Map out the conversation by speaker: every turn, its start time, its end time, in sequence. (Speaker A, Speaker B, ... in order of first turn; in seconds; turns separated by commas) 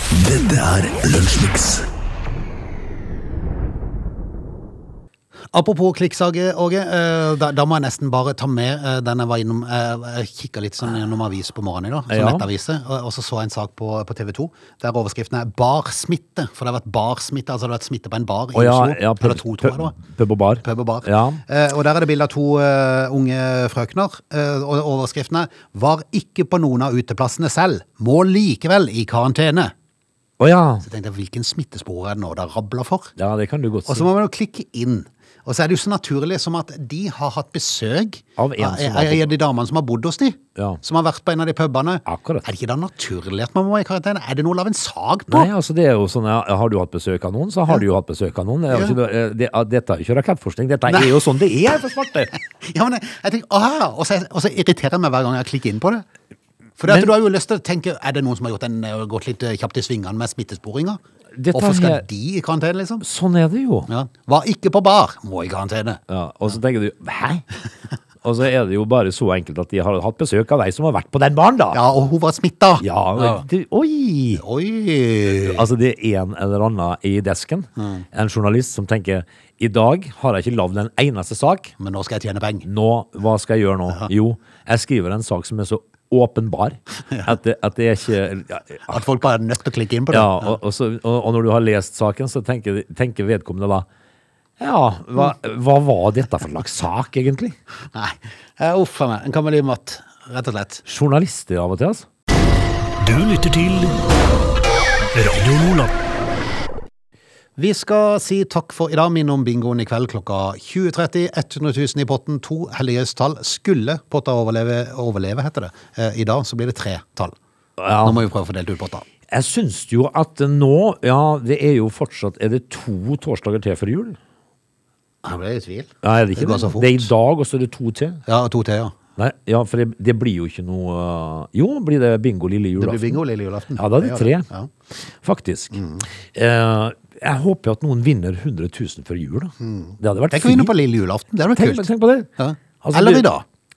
Speaker A: 0.1-1.9, Speaker B: 5.5-20.0, Speaker C: 12.1-12.4, Speaker C: 18.5-21.4, Speaker B: 20.6-29.7, Speaker C: 30.4-30.8, Speaker B: 30.8-33.1, Speaker C: 33.2-34.1, Speaker B: 33.9-45.5, Speaker C: 38.4-39.3, Speaker C: 42.0-42.5, Speaker C: 45.3-52.3, Speaker B: 48.7-49.0, Speaker B: 50.9-51.2, Speaker B: 52.3-56.0, Speaker B: 56.8-61.0, Speaker C: 56.8-57.1, Speaker C: 61.4-62.0, Speaker B: 61.5-63.0, Speaker C: 63.0-63.9, Speaker B: 63.9-66.0, Speaker C: 66.1-67.5, Speaker C: 68.2-71.8, Speaker B: 71.7-73.4, Speaker C: 72.8-74.4, Speaker B: 74.3-75.6, Speaker C: 75.4-81.7, Speaker B: 77.8-78.0, Speaker B: 81.8-82.7, Speaker C: 82.6-89.0, Speaker B: 87.1-87.3, Speaker B: 88.9-90.6, Speaker C: 90.1-93.9, Speaker C: 94.6-97.6, Speaker B: 97.9-100.8, Speaker C: 100.8-102.0, Speaker A: 103.0-104.0, Speaker A: 105.1-105.9, Speaker B: 107.6-117.3, Speaker C: 117.8-118.2, Speaker B: 118.0-119.0, Speaker C: 119.3-124.2, Speaker B: 125.2-127.1, Speaker C: 126.0-128.2, Speaker B: 128.3-128.9, Speaker C: 129.2-133.2, Speaker B: 132.8-134.7, Speaker C: 133.8-134.5, Speaker C: 135.1-135.8, Speaker B: 135.7-136.1, Speaker C: 136.3-140.7, Speaker B: 139.6-143.4, Speaker C: 141.5-142.3, Speaker C: 142.8-143.3